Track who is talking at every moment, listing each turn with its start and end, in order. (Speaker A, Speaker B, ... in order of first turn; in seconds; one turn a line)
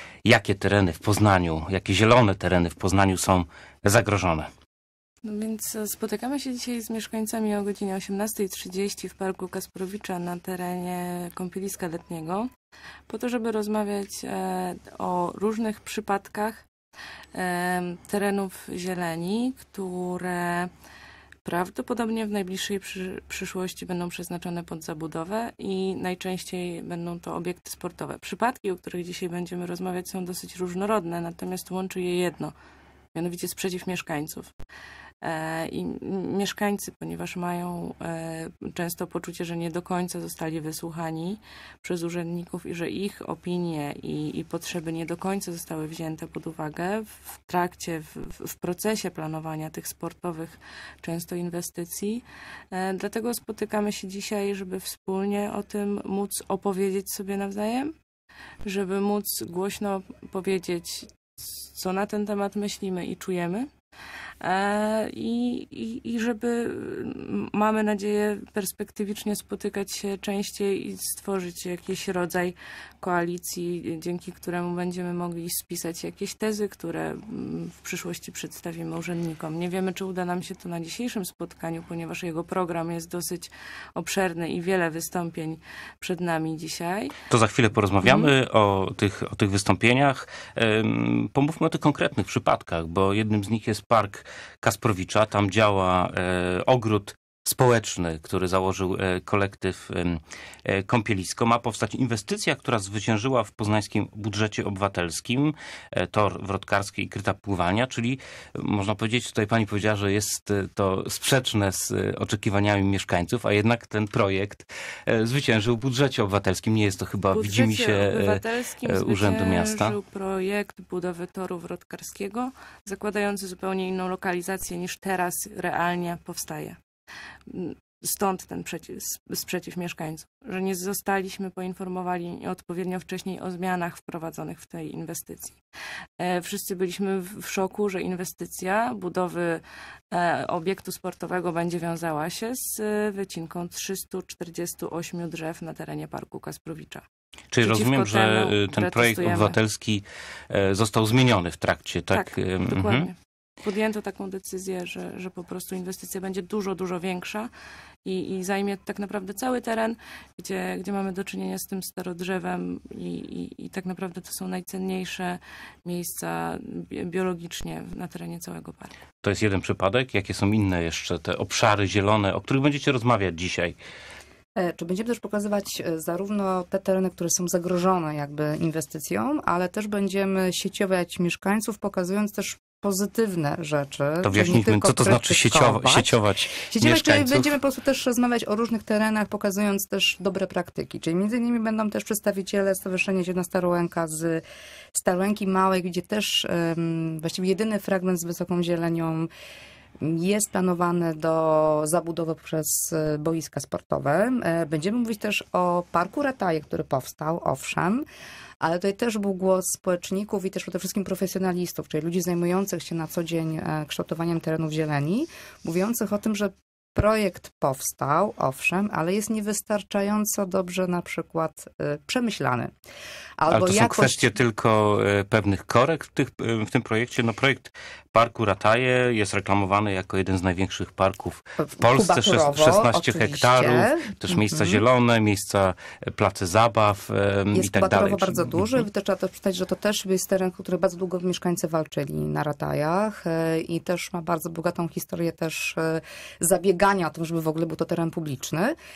Speaker A: 0.2-4.5
Speaker B: 5.2-12.5
Speaker B: 13.1-16.7
Speaker B: 17.3-20.7
Speaker B: 21.4-32.5
Speaker B: 33.1-34.5
Speaker B: 35.2-57.9
Speaker B: 58.6-63.7
Speaker B: 64.4-87.2
Speaker A: 87.3-120.0
Speaker B: 88.0-88.3
Speaker B: 117.3-126.8
Speaker B: 127.5-135.6
Speaker B: 136.2-147.0
Speaker A: 147.5-153.1
Speaker B: 147.6-149.6
Speaker B: 152.1-157.5
Speaker B: 158.1-168.9
Speaker A: 169.2-173.8
Speaker C: 174.6-194.4
Speaker A: 184.2-187.6
Speaker C: 194.9-199.3
Speaker C: 200.0-208.1
Speaker C: 208.6-222.7
Speaker C: 223.4-224.3
Speaker A: 223.5-238.8
Speaker C: 231.6-234.8
Speaker C: 237.5-248.8